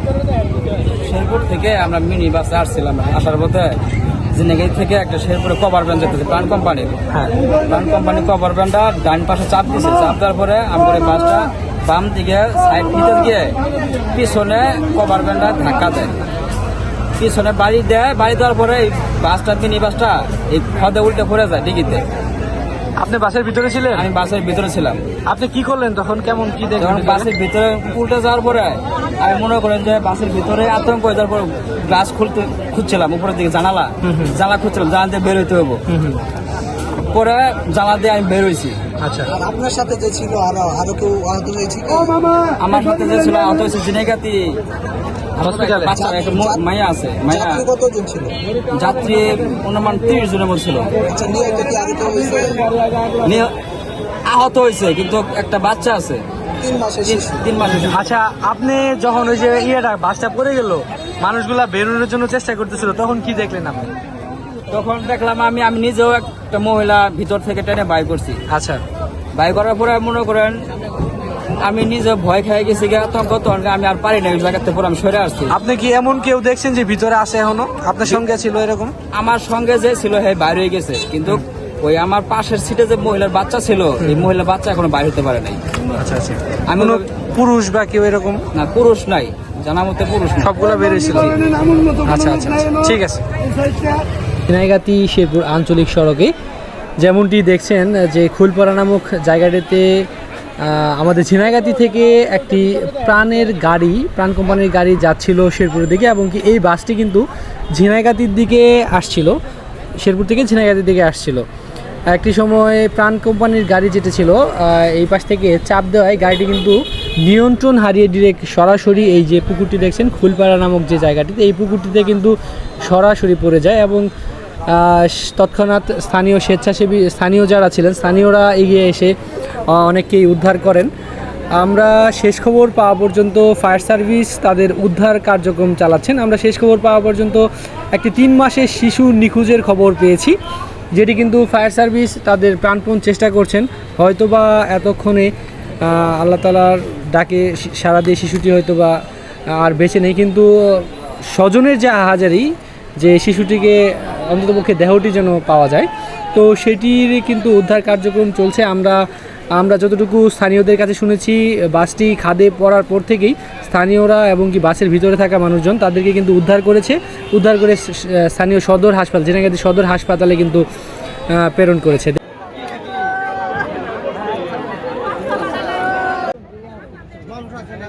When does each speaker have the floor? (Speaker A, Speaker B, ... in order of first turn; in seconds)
Speaker A: 1.0-3.8, 4.3-16.1, 17.2-22.0, 23.9-25.0, 26.8-35.8, 37.1-38.8, 42.6-44.6, 45.4-47.6, 48.7-51.0, 53.2-53.5, 54.2-56.2, 57.0-58.1, 64.7-68.4, 69.3-70.6, 71.6-75.5, 79.1-85.6, 86.7-87.1, 88.5-91.5
Speaker B: 23.0-24.1, 25.3-27.3, 34.0-34.4, 35.9-36.2, 39.0-39.3, 45.4-46.0, 57.8-63.9, 68.5-68.8, 75.5-78.9, 84.0-84.3, 86.0-88.4, 90.4-91.4, 91.9-93.2, 94.5-96.3, 97.0-100.1, 100.6-109.4, 110.0-111.4, 112.1-124.1, 124.7-129.1, 129.7-130.9, 131.6-140.3, 140.9-149.0, 149.5-170.7, 171.3-172.2
Speaker C: 39.3-42.3, 45.9-46.6, 47.3-48.4, 51.0-52.7, 56.6-57.5